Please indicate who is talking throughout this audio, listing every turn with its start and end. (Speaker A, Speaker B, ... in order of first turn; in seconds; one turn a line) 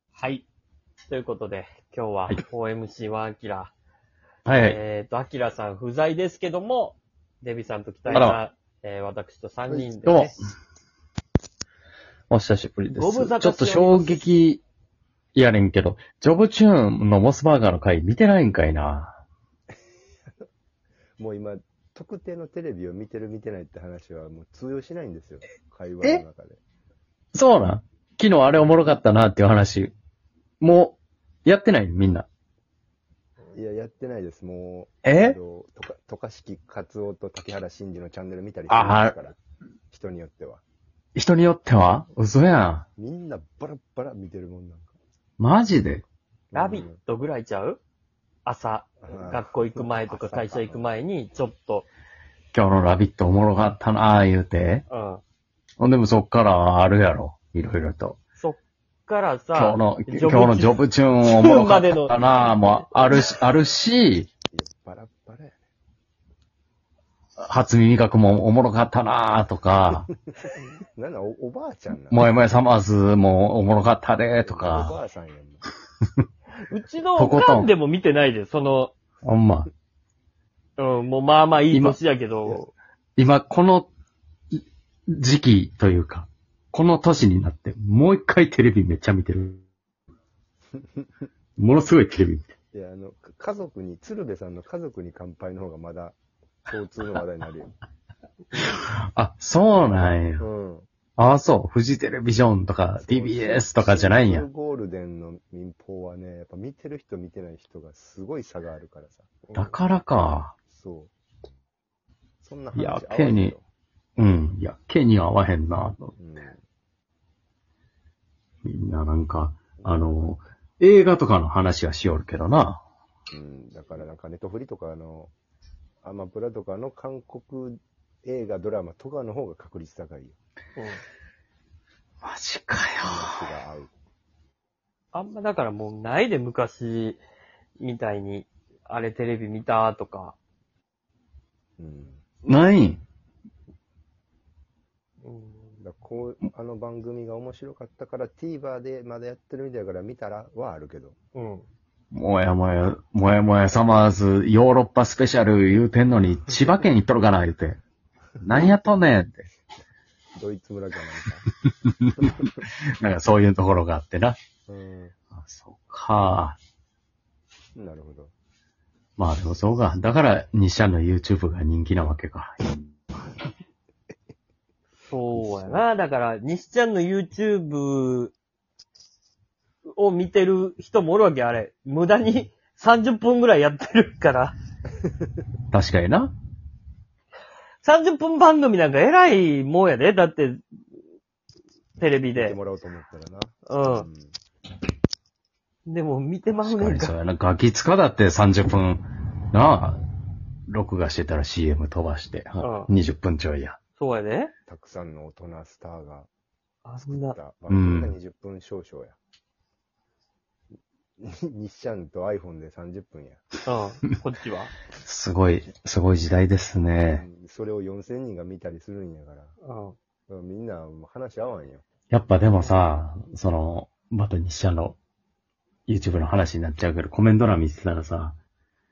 Speaker A: 0.2-0.5
Speaker A: 1.1-3.7
Speaker B: 4.5-4.8
Speaker A: 4.5-10.3
Speaker B: 8.1-8.4
Speaker B: 10.0-10.4
Speaker B: 12.3-14.6
Speaker A: 13.0-14.3
Speaker B: 15.3-19.2
Speaker C: 21.2-26.6
Speaker B: 27.3-29.9
Speaker B: 30.6-32.3
Speaker C: 33.5-39.4
Speaker B: 35.0-35.4
Speaker B: 38.7-39.2
Speaker C: 39.9-40.6
Speaker B: 41.1-42.8
Speaker C: 43.0-45.0
Speaker B: 45.4-46.0
Speaker C: 46.5-47.0
Speaker A: 46.5-47.8
Speaker A: 48.5-51.9
Speaker C: 49.0-51.0
Speaker B: 52.5-54.8
Speaker A: 54.9-55.2
Speaker B: 55.8-58.2
Speaker A: 58.4-62.8
Speaker B: 59.5-64.3
Speaker C: 64.5-65.5
Speaker B: 67.4-70.1
Speaker C: 70.9-72.2
Speaker B: 72.1-75.0
Speaker C: 74.4-75.6
Speaker A: 76.6-78.9
Speaker B: 77.2-77.7
Speaker B: 79.2-79.7
Speaker A: 80.8-82.6
Speaker B: 81.7-82.0
Speaker C: 82.4-82.7
Speaker B: 83.2-83.9
Speaker B: 85.1-89.6
Speaker B: 91.6-92.5
Speaker C: 92.7-96.2
Speaker C: 96.7-97.7
Speaker B: 98.5-100.5
Speaker C: 100.4-100.9
Speaker B: 101.2-104.5
Speaker C: 103.0-109.8
Speaker B: 109.5-110.5
Speaker C: 110.7-111.1
Speaker C: 112.4-113.6
Speaker B: 112.7-113.5
Speaker B: 114.2-116.1
Speaker C: 116.2-116.6
Speaker B: 118.7-122.8
Speaker C: 119.8-120.3
Speaker C: 123.3-125.3
Speaker C: 126.0-130.4
Speaker A: 130.8-131.0
Speaker B: 132.2-133.5
Speaker C: 133.0-133.9
Speaker A: 135.1-137.2
Speaker A: 137.8-140.4
Speaker C: 141.8-142.2
Speaker B: 142.5-143.0
Speaker A: 145.2-145.8
Speaker C: 145.8-151.2
Speaker A: 151.3-151.7
Speaker B: 152.1-157.8
Speaker B: 158.4-159.5
Speaker C: 160.3-161.4
Speaker B: 161.8-164.4
Speaker C: 164.7-165.2
Speaker B: 165.4-166.6
Speaker C: 167.8-168.3
Speaker B: 169.2-172.8
Speaker A: 175.1-178.3
Speaker C: 175.3-175.8
Speaker A: 179.9-184.5
Speaker B: 185.7-186.3
Speaker A: 187.8-190.6
Speaker A: 192.0-192.6
Speaker C: 192.3-194.4
Speaker A: 193.7-194.1
Speaker A: 195.9-197.1
Speaker B: 196.6-200.0
Speaker B: 200.7-203.8
Speaker A: 202.6-202.9
Speaker A: 204.0-204.5
Speaker C: 204.7-206.3
Speaker A: 206.8-207.4
Speaker C: 207.1-209.2
Speaker B: 207.7-208.2
Speaker C: 211.2-213.4
Speaker A: 213.7-214.7
Speaker B: 215.0-217.2
Speaker C: 217.2-219.5
Speaker A: 219.6-220.0
Speaker C: 220.3-221.8
Speaker B: 222.1-225.0
Speaker B: 225.9-228.3